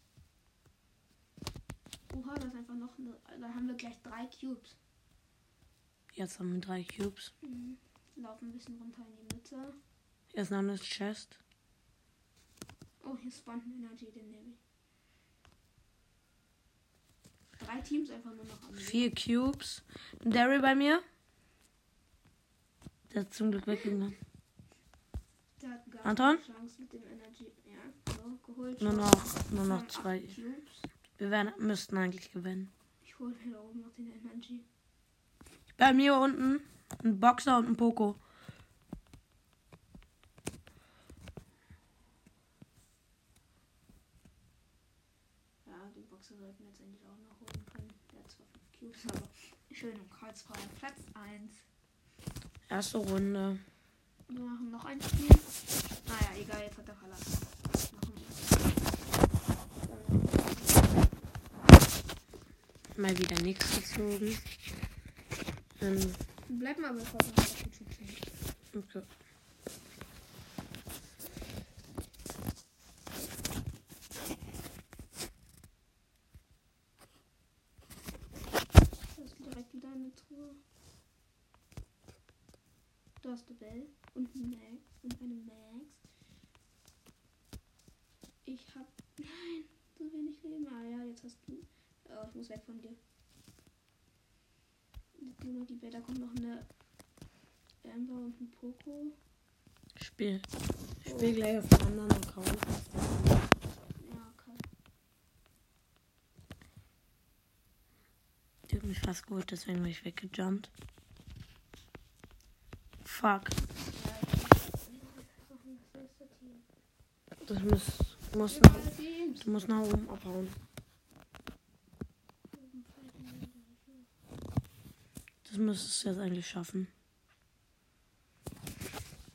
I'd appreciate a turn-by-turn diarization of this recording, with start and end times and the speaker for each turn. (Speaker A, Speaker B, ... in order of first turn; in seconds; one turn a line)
Speaker A: 2.1-4.8
Speaker B: 6.1-7.3
Speaker A: 7.4-9.8
Speaker B: 10.3-11.4
Speaker A: 13.0-14.6
Speaker A: 17.6-19.1
Speaker B: 18.8-21.0
Speaker B: 23.1-24.2
Speaker A: 25.6-30.9
Speaker B: 26.0-26.4
Speaker B: 28.8-30.3
Speaker B: 31.2-32.7
Speaker A: 33.0-34.6
Speaker B: 35.8-38.2
Speaker A: 45.6-51.6
Speaker B: 52.7-53.6
Speaker A: 54.3-55.5
Speaker A: 56.0-58.6
Speaker A: 59.8-61.0
Speaker B: 63.0-64.4
Speaker B: 65.8-66.2
Speaker A: 66.5-68.3
Speaker B: 68.7-69.1
Speaker A: 79.1-80.6
Speaker A: 83.2-86.0
Speaker A: 88.4-93.0
Speaker A: 95.2-96.7
Speaker A: 97.8-99.2
Speaker B: 100.0-100.5
Speaker B: 101.0-103.4
Speaker A: 101.0-101.4
Speaker A: 104.0-104.6
Speaker B: 108.7-110.7
Speaker B: 113.0-113.6
Speaker A: 113.9-116.6
Speaker B: 117.4-120.5
Speaker A: 118.4-119.5
Speaker A: 122.5-124.1
Speaker B: 125.4-126.9